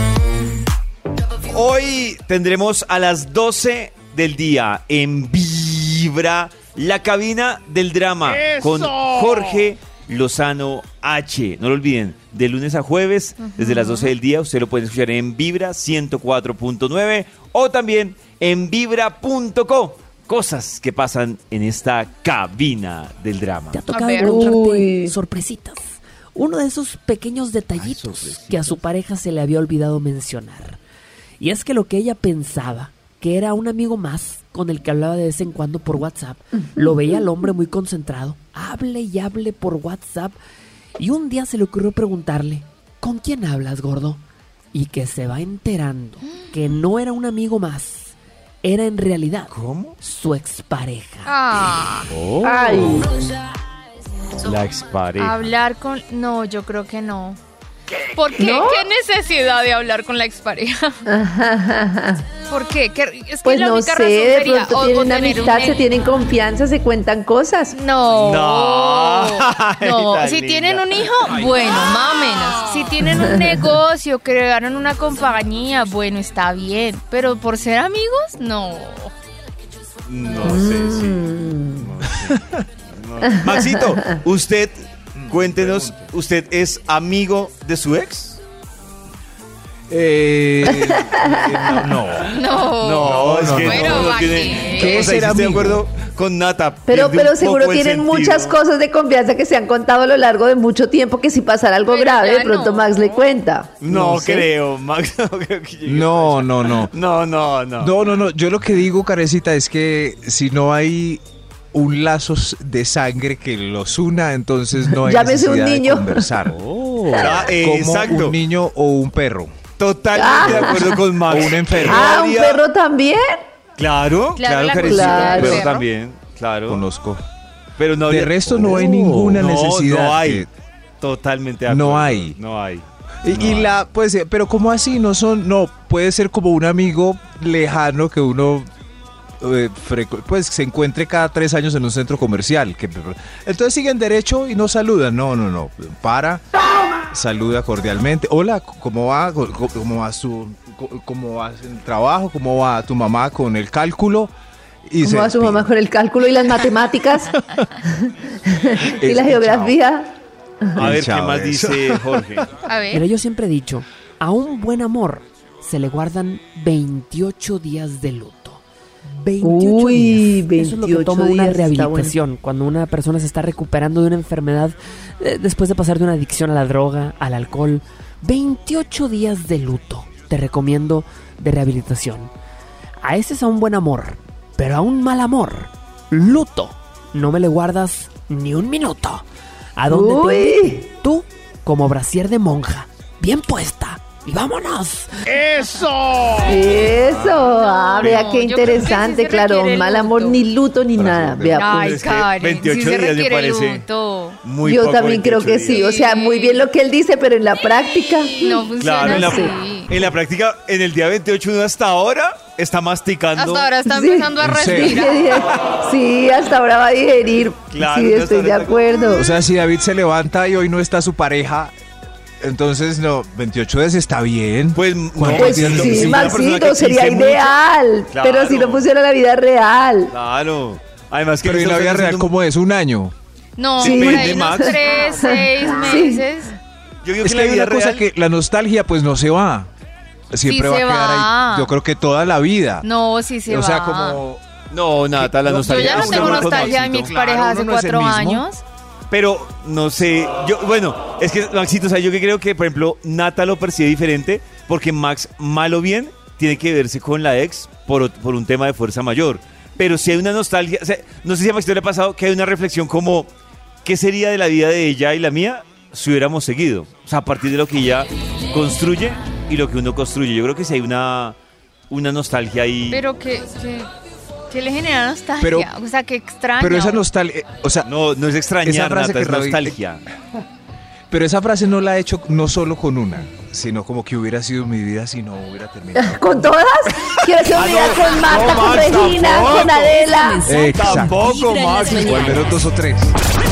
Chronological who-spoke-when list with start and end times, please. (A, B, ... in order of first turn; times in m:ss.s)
0:01.5-0:23.8 A
0:13.4-0:14.1 B
0:23.7-0:30.8 C
0:23.9-0:24.4 B
0:24.2-0:25.1 D
0:27.7-0:28.8 A
0:31.4-0:40.4 C
0:41.0-0:51.4 C
0:49.5-0:50.0 A
0:51.2-0:52.1 B
0:52.1-0:53.1 A
0:52.4-0:53.1 D
0:54.4-0:55.5 A
0:55.2-0:57.4 B
0:58.0-1:01.0 B
0:58.3-0:58.8 D
1:01.1-1:02.3 D
1:02.4-1:05.8 B
1:03.4-1:07.7 D
1:07.7-1:19.1 B
1:08.1-1:11.4 A
1:13.0-1:13.8 D
1:20.1-1:28.4 A
1:20.4-1:21.9 D
1:22.1-1:22.6 E
1:23.2-1:24.0 D
1:25.1-1:26.0 E
1:29.9-1:32.4 E
1:30.6-1:31.9 D
1:32.3-1:35.0 B
1:32.8-1:38.6 A
1:33.0-1:35.8 E
1:36.9-1:44.5 D
1:41.9-1:43.3 B
1:43.8-1:48.0 A
1:45.8-1:46.9 E
1:47.8-1:51.2 E
1:51.7-1:59.5 E
1:54.9-1:56.4 D
1:57.1-1:57.4 D
1:57.1-1:58.4 A
1:59.8-2:02.6 A
2:00.1-2:01.0 D
2:00.3-2:02.2 E
2:01.7-2:03.4 D
2:03.8-2:06.8 A
2:04.4-2:05.8 B
2:04.7-2:05.6 D
2:06.7-2:07.2 E
2:07.8-2:10.5 A
2:08.0-2:10.5 E
2:11.0-2:13.8 A
2:11.6-2:12.4 E
2:13.2-2:18.7 E
2:19.4-2:26.4 E
2:27.1-2:34.3 E
2:34.9-2:35.7 E
2:35.0-2:40.1 D
2:38.8-2:39.8 E
2:40.8-2:42.2 E
2:40.8-2:42.5 A
2:42.6-2:43.1 B
2:42.9-2:48.6 C
2:49.1-3:02.3 C
2:49.4-2:52.2 D
3:03.0-3:15.6 C
3:09.9-3:10.8 D
3:15.6-3:16.3 B
3:16.4-3:22.0 D
3:17.1-3:18.3 A
3:17.5-3:20.4 B
3:21.0-3:21.6 E
3:21.5-3:24.4 B
3:21.6-3:23.8 A
3:24.4-3:25.8 A
3:24.6-3:29.6 D
3:25.6-3:26.7 B
3:28.4-3:30.0 B
3:28.8-3:33.8 A
3:33.3-3:35.4 B
3:33.9-3:39.3 D
3:34.4-3:35.2 E
3:37.7-3:38.8 A
3:39.1-3:41.7 E
3:42.4-3:46.4 E
3:44.7-3:47.6 A
3:45.3-3:50.1 D
3:48.1-3:48.9 A
3:50.1-3:52.3 A
3:51.4-3:53.1 E
3:53.6-3:56.5 B
3:53.8-3:55.0 A
3:53.8-3:56.3 D
3:57.0-3:58.0 A
3:57.2-3:59.7 E
4:00.3-4:02.9 E
4:00.4-4:01.7 B
4:02.8-4:04.2 B
4:03.4-4:04.4 E
4:04.7-4:07.1 A
4:05.1-4:08.4 E
4:05.5-4:08.6 B
4:09.1-4:23.3 A
4:23.8-4:31.4 A
4:31.9-4:33.0 A
4:32.9-4:33.9 B
4:34.5-4:37.0 B
4:35.4-4:35.7 E
4:36.6-4:37.9 E
4:37.8-4:40.0 A
4:38.6-4:39.8 E
4:41.1-4:46.5 E
4:45.9-4:50.5 D
4:47.4-4:50.0 A
4:49.9-4:52.6 C
4:50.4-4:53.2 E
4:50.7-4:52.5 A